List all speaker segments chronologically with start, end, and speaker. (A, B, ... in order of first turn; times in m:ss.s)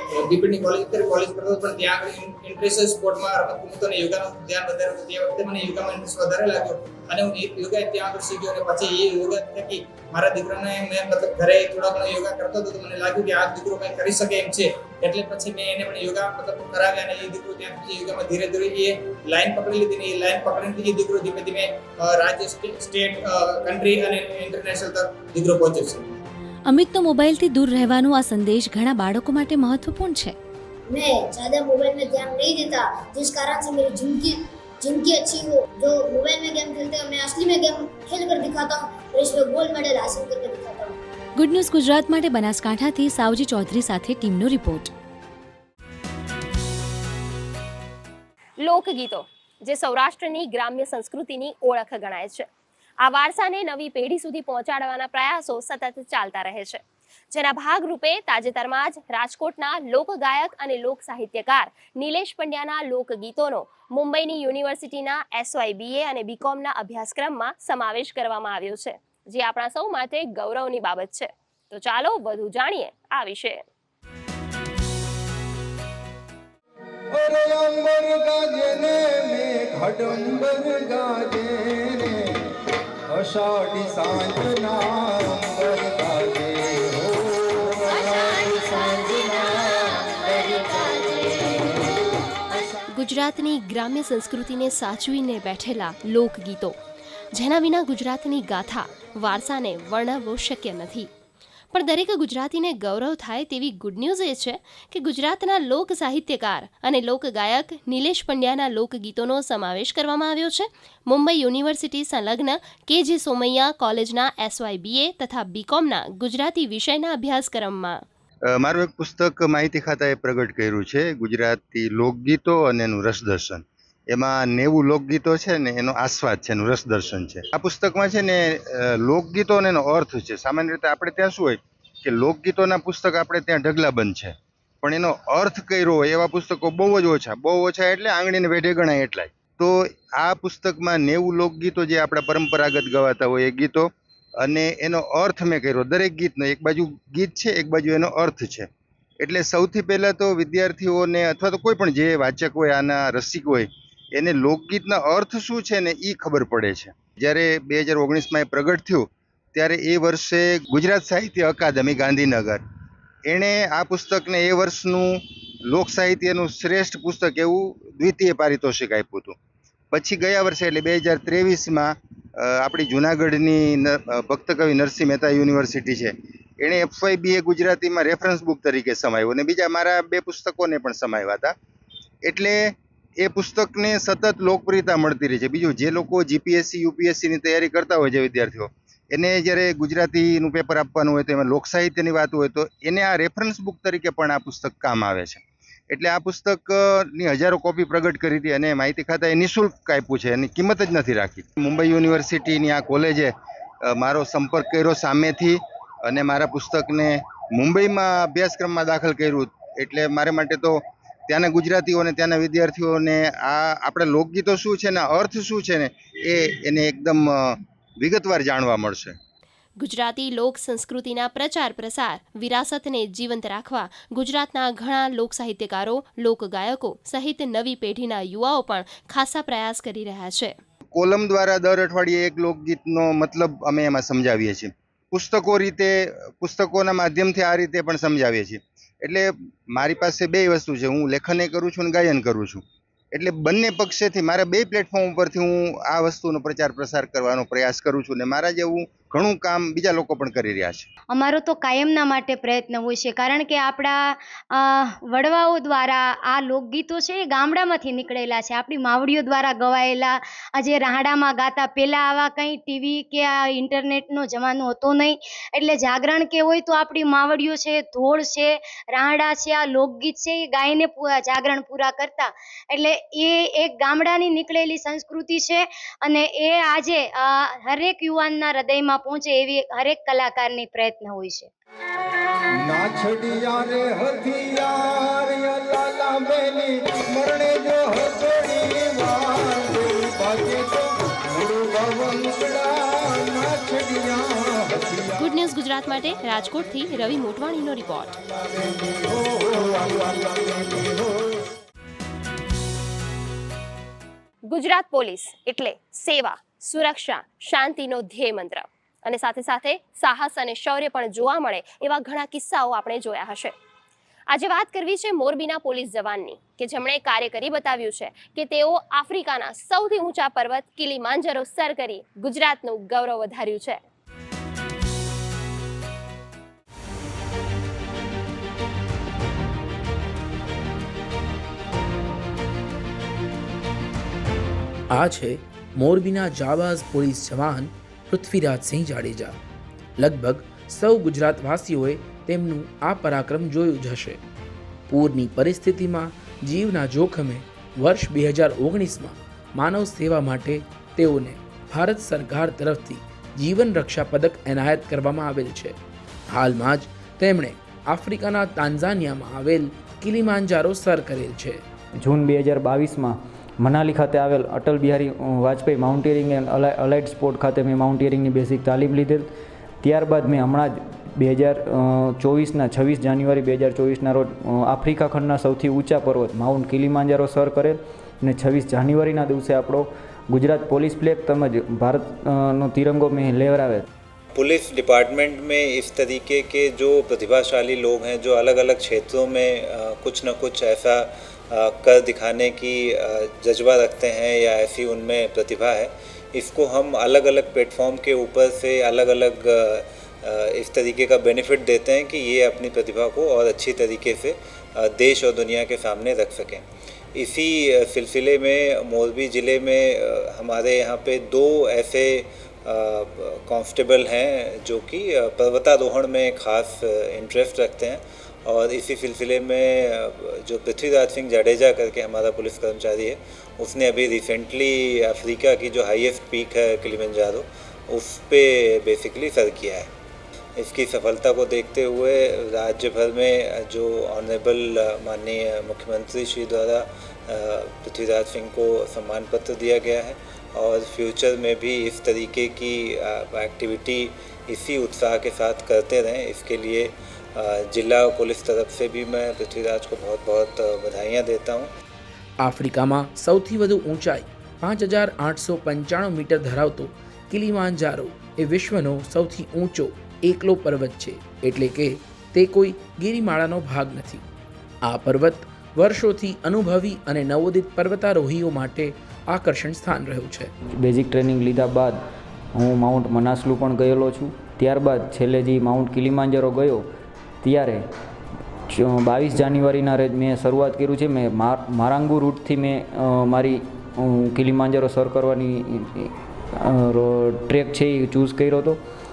0:00.1-0:26.1 A
0:26.7-0:30.4 B
0:30.9-0:41.0 C
0:41.4-0:44.9 B
0:48.6-0:52.5 D
0:53.0-0:56.8 D
0:57.3-1:13.6 D
1:17.1-1:22.3 E
1:23.1-1:32.0 E
1:32.9-1:36.8 D
1:37.3-1:41.1 D
1:41.7-1:58.0 D
1:58.5-2:23.9 F
2:24.4-2:28.7 F
2:29.2-2:42.6 F
2:43.3-2:49.4 F
2:49.9-3:01.6 F
3:02.2-3:39.2 F
3:39.8-3:50.6 D
3:51.0-4:02.6 F
4:03.1-4:10.9 F
4:11.1-4:41.5 G
4:42.6-4:55.3 E
4:55.2-4:58.1 D
4:58.3-5:01.4 E
5:04.5-5:13.5 D
5:14.3-5:23.8 D
5:34.9-5:39.4 H
5:40.0-5:44.2 H
5:44.9-5:55.8 H
5:56.3-6:01.6 H
6:02.0-6:09.3 I
6:09.8-6:23.9 I
6:24.3-7:09.9 J
7:10.6-7:31.7 J
7:32.4-7:44.2 H
7:44.8-7:50.5 H
7:50.8-7:52.0 I
7:52.5-7:56.9 I
7:57.4-7:57.8 I
7:58.7-8:08.8 I